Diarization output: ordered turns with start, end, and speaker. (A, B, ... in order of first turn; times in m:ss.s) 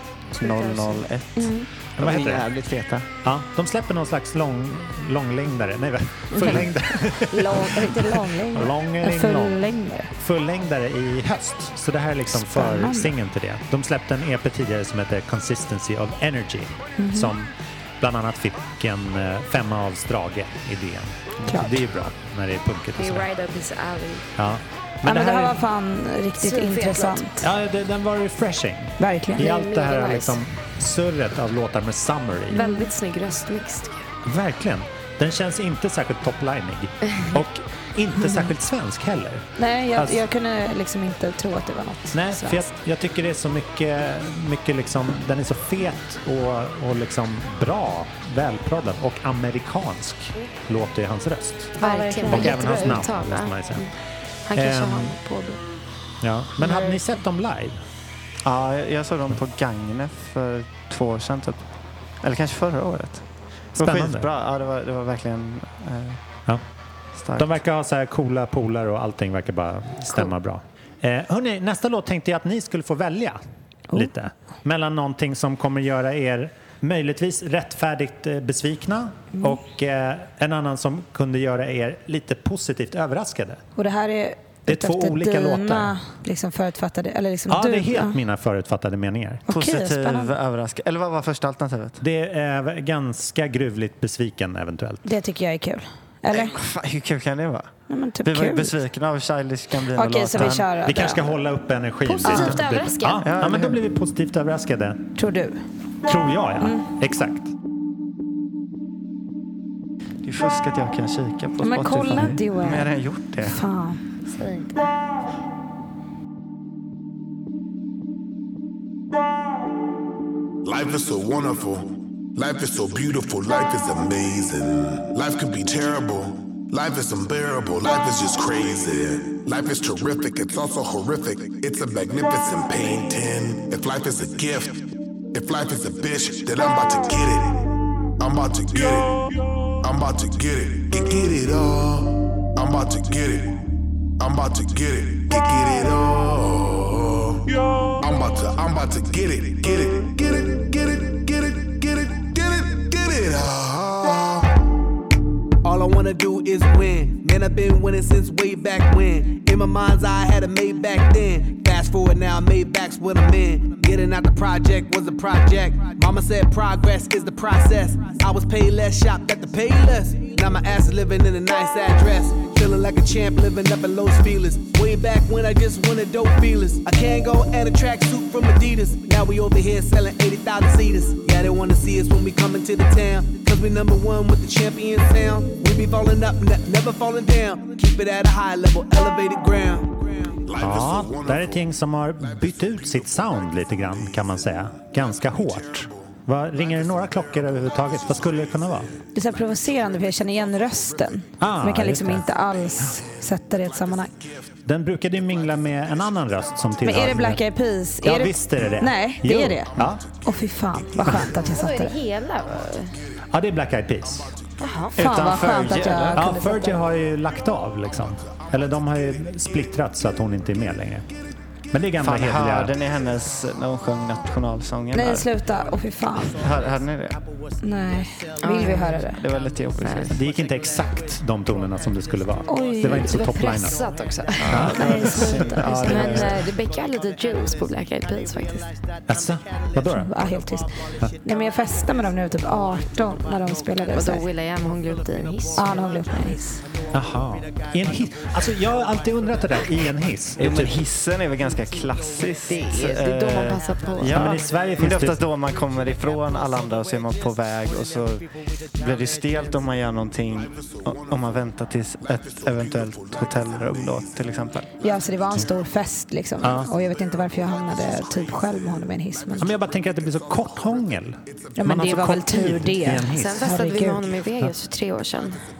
0:00.3-0:03.1 A
0:00.4-0:01.0 B
0:01.4-0:01.7 C
0:02.0-0:02.5 D
0:03.2-0:09.6 D
0:06.3-0:10.1 C
0:10.2-0:23.3 D
0:12.3-0:13.1 C
0:17.0-0:17.3 C
0:21.5-0:21.8 C
0:23.0-0:24.3 B
0:24.4-0:25.6 D
0:25.0-0:27.4 C
0:26.4-0:27.2 B
0:27.4-0:32.6 D
0:29.0-0:29.4 C
0:29.4-0:30.4 B
0:32.5-0:34.1 B
0:32.5-0:32.9 C
0:34.2-0:40.2 D
0:39.6-0:42.7 C
0:42.1-0:51.8 D
0:51.8-0:53.0 C
0:51.8-0:53.9 B
0:52.3-0:53.8 D
0:54.5-0:55.6 B
0:54.6-0:55.2 D
0:56.2-0:57.8 D
0:58.4-1:01.7 A
1:02.2-1:06.2 A
1:03.8-1:04.3 D
1:07.2-1:07.6 A
1:07.4-1:13.4 D
1:13.9-1:23.6 D
1:23.8-1:28.2 C
1:24.7-1:26.0 D
1:27.5-1:29.4 D
1:29.5-1:30.3 C
1:29.5-1:32.0 A
1:32.0-1:35.1 D
1:35.0-1:36.6 C
1:36.3-1:37.7 A
1:37.9-1:38.8 C
1:38.2-1:40.7 A
1:39.9-1:41.3 C
1:40.4-1:45.1 D
1:42.1-1:43.3 B
1:42.2-1:42.6 C
1:42.3-1:42.6 A
1:43.2-1:43.8 A
1:45.2-1:45.6 C
1:46.1-1:47.5 D
1:50.2-1:53.6 A
1:51.6-1:52.9 C
1:53.4-1:54.0 C
1:54.3-1:54.8 B
2:00.6-2:19.3 E
2:19.8-2:23.7 E
2:24.2-2:34.6 E
2:35.6-3:10.4 F
3:10.4-3:21.2 E
3:10.6-3:18.9 D
3:19.2-3:24.1 C
3:21.4-3:22.3 D
3:22.8-3:27.1 E
3:24.7-3:27.4 D
3:26.8-3:32.0 C
3:28.0-3:30.0 D
3:29.8-3:31.3 E
3:31.5-3:32.9 B
3:33.3-3:34.3 D
3:34.6-3:35.0 B
3:35.0-3:36.3 A
3:35.0-3:36.8 C
3:36.2-3:41.1 D
3:41.7-3:42.8 D
3:42.0-3:45.3 A
3:44.9-3:46.5 C
3:46.4-3:47.2 A
3:47.6-3:49.3 C
3:48.4-3:49.0 B
3:49.1-3:50.2 A
3:49.8-3:50.1 B
3:50.1-3:53.8 D
3:52.5-3:53.3 C
3:52.9-3:58.7 B
3:54.4-3:56.5 A
3:54.5-3:54.8 D
3:54.6-3:56.2 C
3:59.1-4:00.1 D
3:59.9-4:04.3 C
4:03.9-4:06.4 B
4:05.6-4:06.6 C
4:06.9-4:10.8 D
4:10.4-4:24.7 A
4:12.5-4:14.2 B
4:14.1-4:15.2 D
4:20.4-4:24.5 E
4:24.8-4:29.5 C
4:26.4-4:26.7 D
4:27.3-4:32.3 E
4:29.4-4:33.6 D
4:31.6-4:34.0 C
4:33.1-4:35.4 B